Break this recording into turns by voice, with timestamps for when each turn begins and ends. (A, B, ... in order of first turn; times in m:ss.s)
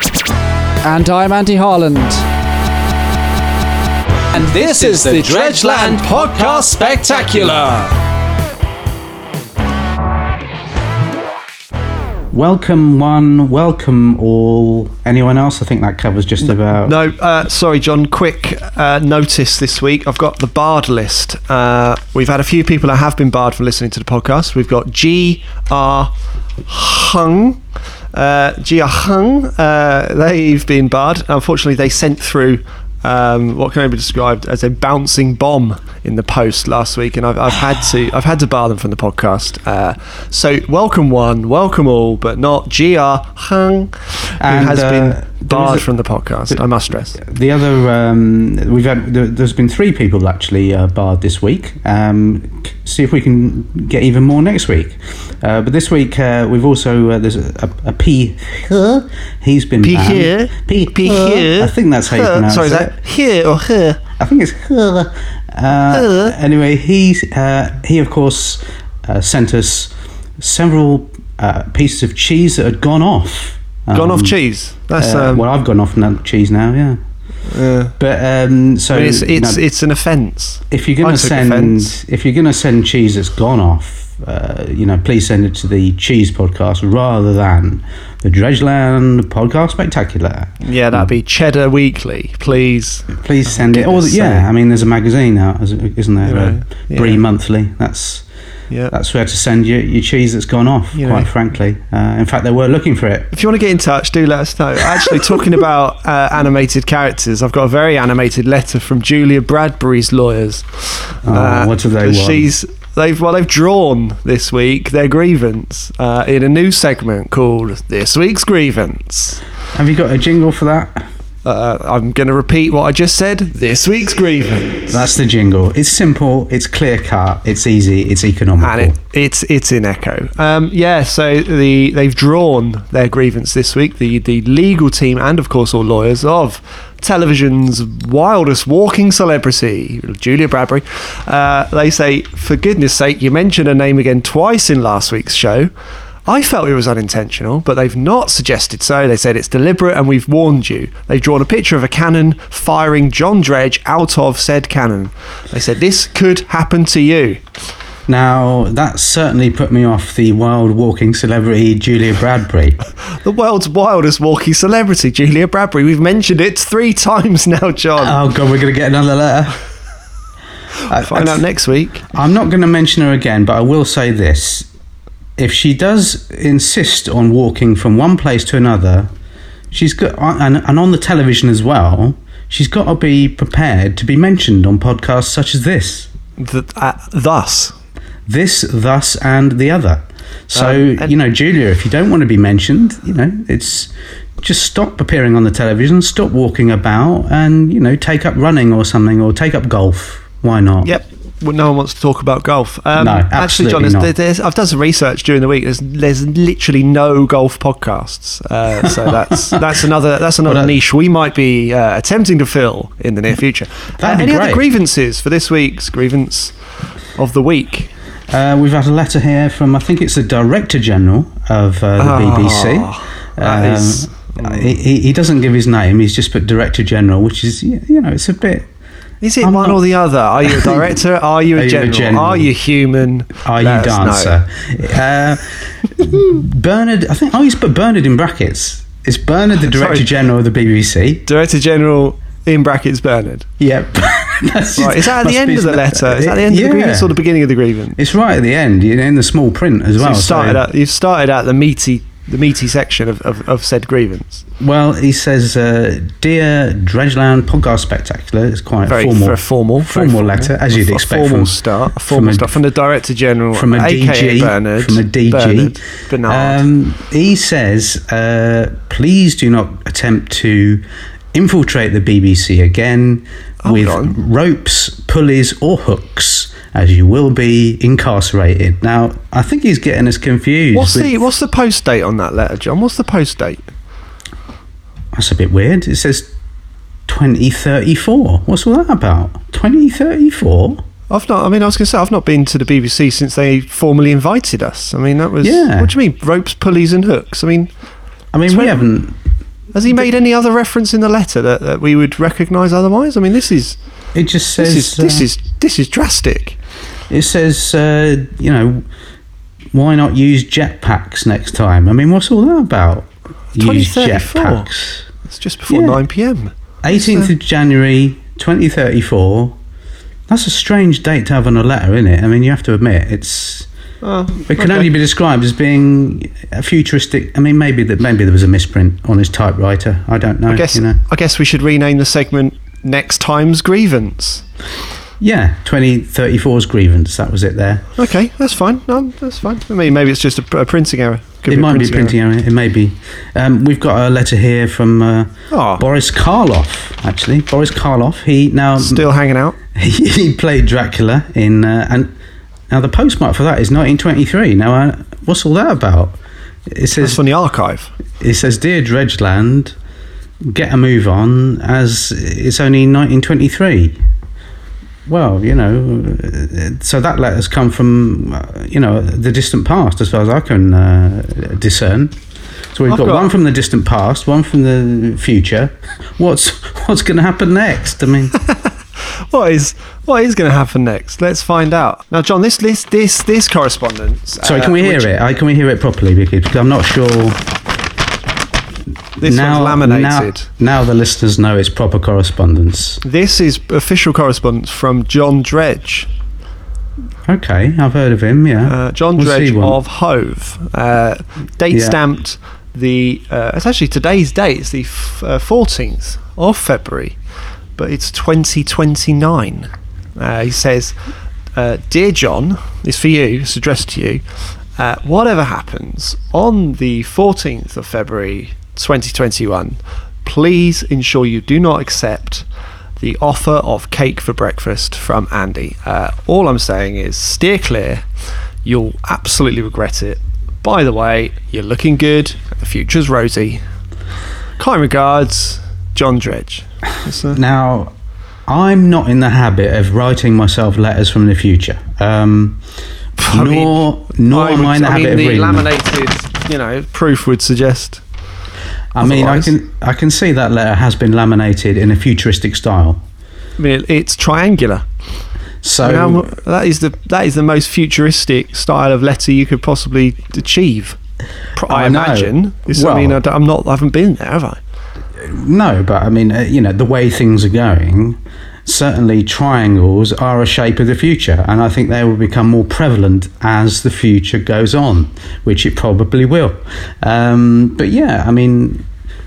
0:00.8-0:02.2 A
0:04.3-0:07.6 B
0:04.3-0:07.9 A
0:12.3-0:17.0 B
0:16.8-0:26.1 C
0:26.7-0:27.6 C
0:28.1-0:47.2 C
0:44.4-0:45.9 B
0:47.2-1:03.0 B
0:59.8-1:04.0 C
1:04.2-1:14.4 B
1:05.9-1:06.3 C
1:13.9-1:15.5 C
1:15.0-1:17.0 B
1:17.5-1:17.9 C
1:18.0-1:19.6 B
1:18.9-1:21.9 C
1:20.7-1:31.0 B
1:30.6-1:34.5 C
1:33.1-1:38.2 B
1:36.2-1:37.2 C
1:38.9-1:43.3 B
1:41.0-1:41.3 C
1:43.3-1:59.4 C
1:51.2-1:52.5 B
1:59.7-2:01.0 B
2:01.4-2:05.0 C
2:04.9-2:09.0 B
2:08.6-2:25.7 C
2:26.3-2:37.4 C
2:38.1-2:42.8 B
2:43.2-2:48.2 C
2:48.0-2:49.6 B
2:50.9-2:51.4 B
2:50.9-2:52.0 C
2:52.1-2:54.7 B
2:55.4-2:59.1 B
2:59.7-3:06.1 B
3:06.4-3:07.8 C
3:08.3-3:20.9 B
3:10.6-3:11.1 C
3:20.8-3:36.5 C
3:23.0-3:24.1 B
3:28.8-3:29.6 B
3:30.4-3:30.7 B
3:34.0-3:34.7 B
3:37.2-3:37.9 C
3:38.3-3:48.7 B
3:42.0-3:44.6 C
3:49.2-3:54.4 C
3:49.4-3:49.9 B
3:50.4-3:50.9 B
3:51.6-3:52.5 B
3:53.4-4:01.3 B
3:59.7-4:00.1 C
4:01.3-4:03.5 C
4:03.6-4:07.2 B
4:04.8-4:08.0 C
4:08.0-4:10.6 B
4:10.0-4:14.4 C
4:14.6-4:22.6 B
4:18.9-4:26.6 C
4:23.5-4:30.8 B
4:31.3-4:41.2 B
4:33.6-4:34.2 C
4:40.7-4:43.7 C
4:45.1-4:46.3 B
4:47.1-4:50.8 B
4:51.1-4:57.7 C
4:55.4-4:55.9 B
4:58.3-4:59.2 B
4:58.5-4:58.8 C
4:59.7-5:03.8 C
5:04.1-5:05.3 B
5:04.6-5:06.6 C
5:07.1-5:08.8 B
5:09.7-5:15.1 B
5:13.6-5:14.7 C
5:15.2-5:17.3 C
5:15.7-5:16.0 B
5:16.8-5:19.6 B
5:20.3-5:23.7 B
5:24.0-5:24.9 C
5:24.4-5:31.0 B
5:30.5-5:34.4 C
5:35.2-5:37.9 B
5:38.0-5:42.2 C
5:41.5-5:49.1 B
5:45.5-5:45.8 C
5:48.8-5:49.6 C
5:49.7-5:52.1 B
5:52.7-5:57.2 B
5:57.0-5:57.9 C
5:58.2-5:59.8 B
6:00.4-6:04.0 B
6:05.1-6:12.2 B
6:12.7-6:18.4 B
6:12.9-6:13.3 C
6:19.3-6:25.1 C
6:24.4-6:27.4 B
6:29.2-6:30.5 C
6:29.2-6:33.0 B
6:33.0-6:36.1 C
6:37.3-6:39.8 B
6:38.6-6:47.2 C
6:41.7-6:42.0 B
6:47.8-6:51.0 C
6:51.6-6:54.2 C
6:54.8-7:02.5 C
7:03.0-7:08.0 C
7:08.6-7:13.6 C
7:14.6-7:17.4 C
7:17.3-7:17.9 B
7:18.5-7:22.6 B
7:23.2-7:28.0 C
7:23.3-7:25.7 B
7:29.0-7:33.0 B
7:29.0-7:29.5 C
7:33.6-7:34.9 C
7:35.6-7:36.3 B
7:35.8-7:41.0 C
7:41.6-7:44.6 C
7:41.7-7:43.2 B
7:45.2-7:58.9 B